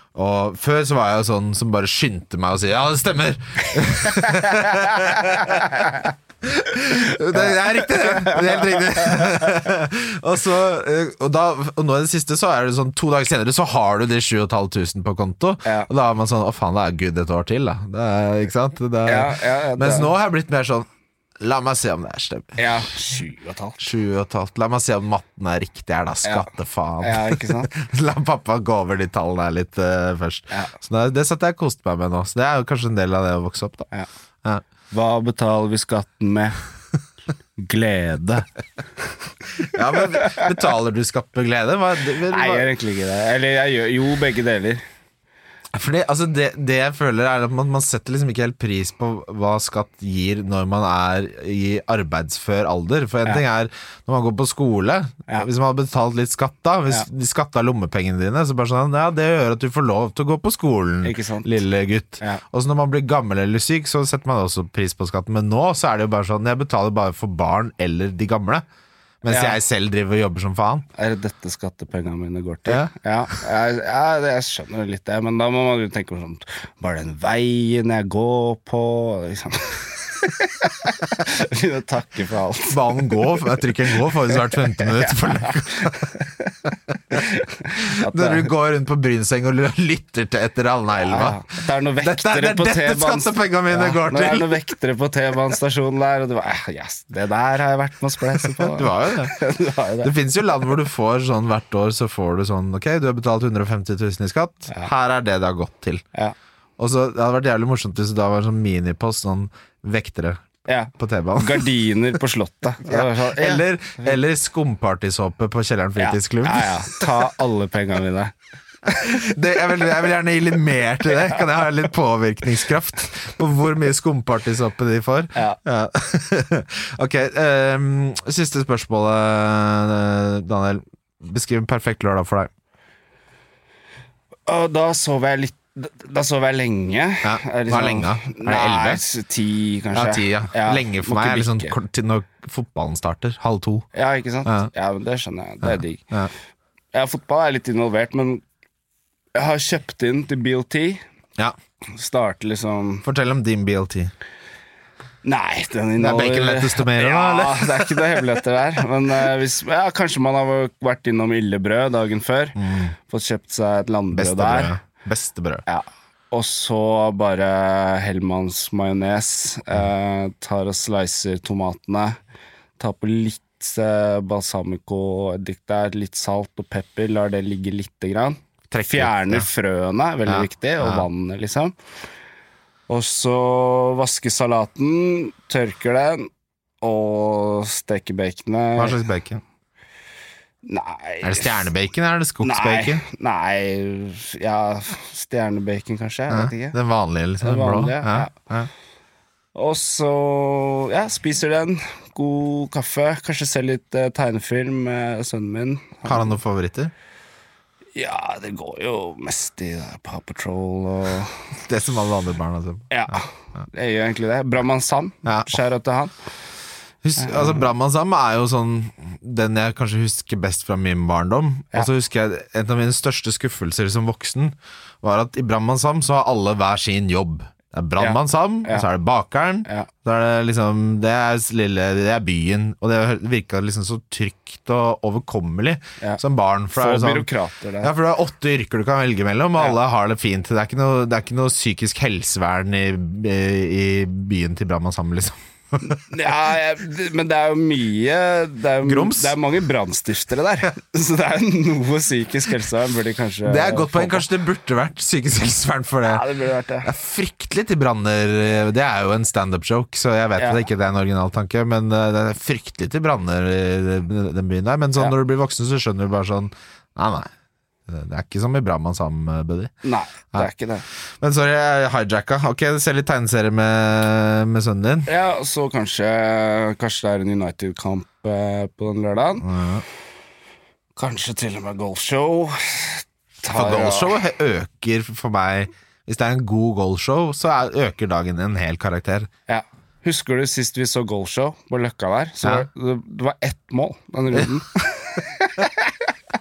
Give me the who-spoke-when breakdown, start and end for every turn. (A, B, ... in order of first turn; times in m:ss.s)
0:00.2-0:20.9 A
0:04.2-0:06.1 B
0:07.3-0:09.5 B
0:19.1-0:20.1 B
0:21.4-0:22.8 A
0:22.6-0:23.8 B
0:23.8-0:33.9 A
0:26.2-0:26.5 B
0:27.0-0:27.7 B
0:34.9-0:36.6 B
0:37.6-0:38.5 B
0:39.6-0:42.7 A
0:39.8-0:40.5 B
0:42.2-0:44.8 B
0:45.7-1:08.6 A
1:01.0-1:01.6 B
1:09.2-1:10.9 A
1:09.3-1:09.6 B
1:11.0-1:28.5 B
1:22.7-1:26.1 A
1:27.1-1:31.5 A
1:30.9-1:40.2 B
1:32.0-1:34.6 A
1:38.4-1:39.4 A
1:40.0-1:46.0 A
1:46.8-1:50.4 A
1:50.7-1:53.7 B
1:51.0-1:51.7 A
1:52.9-1:57.1 A
1:56.0-1:58.3 B
1:58.9-2:12.5 A
2:14.5-2:21.8 B
2:17.2-2:19.0 A
2:19.9-2:23.9 A
2:23.9-2:26.1 B
2:25.6-2:26.3 A
2:26.9-2:28.4 B
2:29.4-2:31.0 B
2:31.9-2:33.1 B
2:33.0-2:34.1 A
2:35.2-2:44.8 B
2:36.0-2:38.2 A
2:42.6-2:42.9 A
2:44.1-2:45.6 A
2:45.7-2:52.2 B
2:52.8-3:01.8 B
2:58.7-2:59.5 A
3:00.3-3:01.1 A
3:02.9-3:06.3 B
3:06.8-3:09.0 B
3:08.8-3:09.4 A
3:10.6-3:11.7 B
3:11.2-3:13.0 A
3:12.4-3:16.8 B
3:16.3-3:18.7 A
3:17.4-3:18.3 B
3:19.6-3:26.3 B
3:26.0-3:26.9 A
3:28.0-3:31.5 B
3:31.6-3:33.2 A
3:32.9-3:36.1 B
3:35.2-3:35.6 A
3:37.0-3:57.3 A
3:37.2-3:37.7 B
3:48.0-3:48.9 B
3:56.7-3:57.9 B
3:57.8-4:06.0 A
4:05.8-4:14.3 B
4:08.8-4:09.4 A
4:13.4-4:16.2 A
4:16.0-4:16.9 B
4:16.8-4:27.3 A
4:20.4-4:20.6 B
4:27.9-4:29.7 A
4:29.8-4:30.8 B
4:31.2-4:35.1 A
4:35.1-4:39.5 B
4:39.4-4:39.8 A
4:41.0-4:44.2 B
4:43.5-4:49.3 A
4:49.5-4:56.1 B